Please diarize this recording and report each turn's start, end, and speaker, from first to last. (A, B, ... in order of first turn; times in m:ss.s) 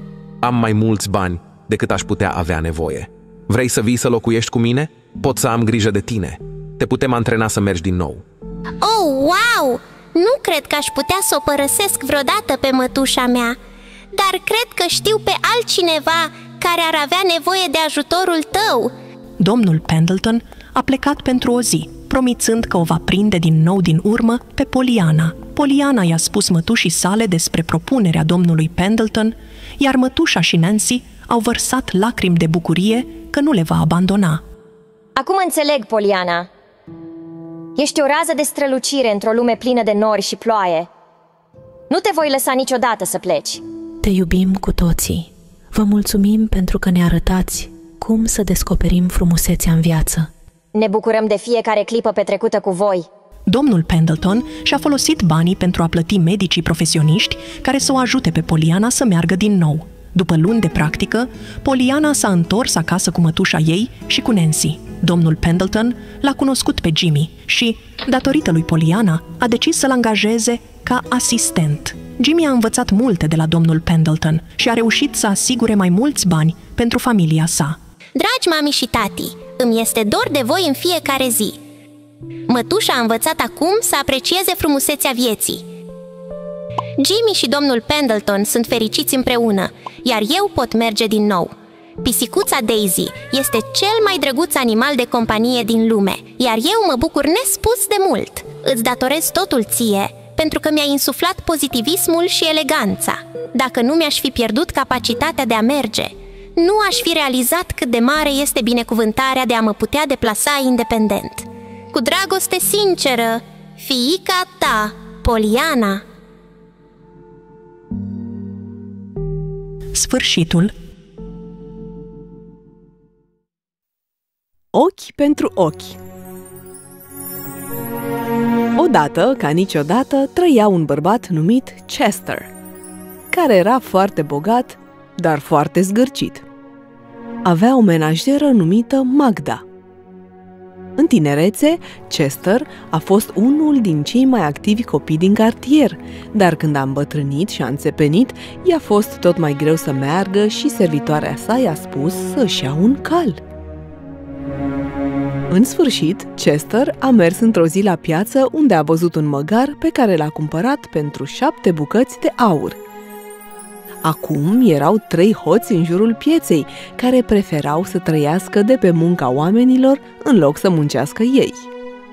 0:00.4-0:08.2 A
0:08.8-0:13.6 B
0:14.1-0:18.9 B
0:19.4-0:34.4 C
0:35.2-0:36.5 D
0:37.8-0:40.9 D
0:41.9-0:43.6 D
0:44.0-0:50.3 E
0:50.7-0:53.1 D
0:53.5-1:17.8 C
1:18.2-1:21.6 B
1:22.5-1:25.6 B
1:27.0-1:56.0 B
2:00.0-2:00.8 C
2:04.7-2:06.0 F
2:08.8-2:12.5 F
2:13.3-2:16.4 F
2:17.4-2:19.6 F
2:21.0-2:33.4 F
2:35.5-2:42.8 F
2:44.0-2:51.7 F